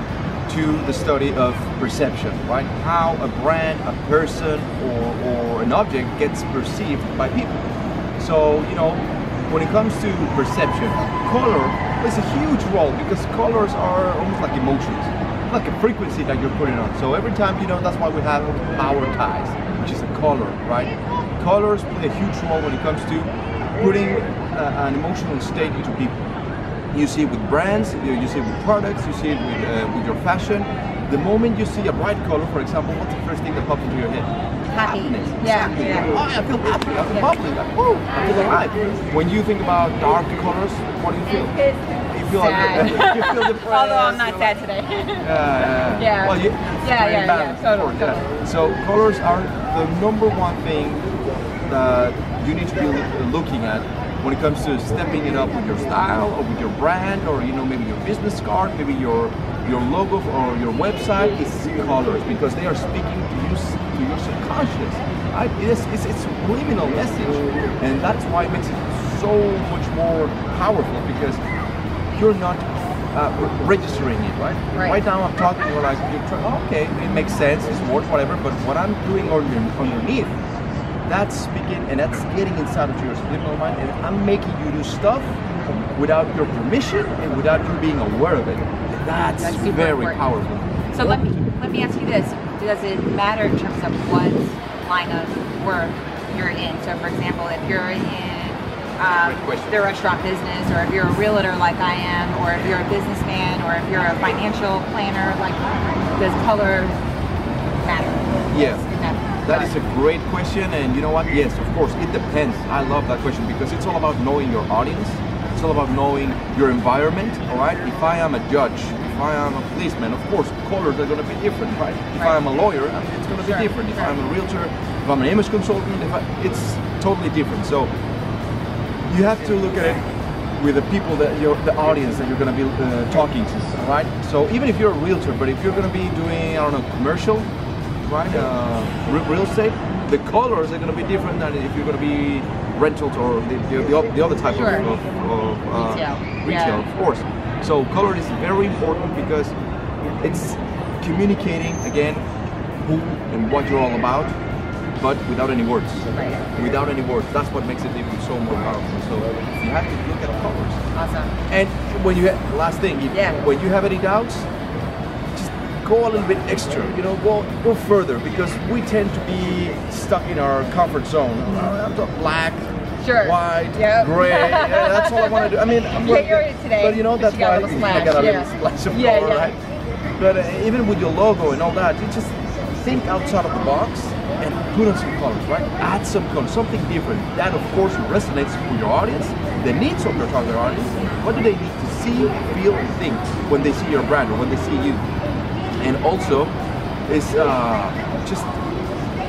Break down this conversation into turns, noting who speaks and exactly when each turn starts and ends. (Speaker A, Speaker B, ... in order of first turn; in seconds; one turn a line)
Speaker A: 0.5-7.6
Speaker A: 8.2-26.2
Speaker A: 26.9-41.6
Speaker B: 34.7-36.1
Speaker A: 42.1-44.6
Speaker B: 42.3-48.3
Speaker A: 45.2-51.1
Speaker A: 51.7-71.4
Speaker A: 72.1-80.3
Speaker B: 74.7-75.0
Speaker A: 81.1-85.4
Speaker A: 85.9-91.4
Speaker B: 89.4-90.2
Speaker B: 90.9-107.0
Speaker A: 99.2-99.9
Speaker B: 107.8-109.8
Speaker A: 108.5-108.8
Speaker A: 109.5-127.9
Speaker B: 122.2-122.4
Speaker B: 123.4-124.2
Speaker A: 129.1-130.1
Speaker A: 130.6-137.5
Speaker A: 138.1-149.6
Speaker B: 144.5-144.9
Speaker B: 145.7-146.8
Speaker A: 150.2-152.2
Speaker A: 152.8-154.4
Speaker A: 155.0-160.8
Speaker B: 156.1-156.4
Speaker B: 160.9-161.3
Speaker A: 161.5-164.5
Speaker B: 163.1-163.4
Speaker A: 165.3-179.6
Speaker B: 173.0-179.6
Speaker A: 180.2-195.0
Speaker A: 195.8-196.5
Speaker A: 197.1-198.6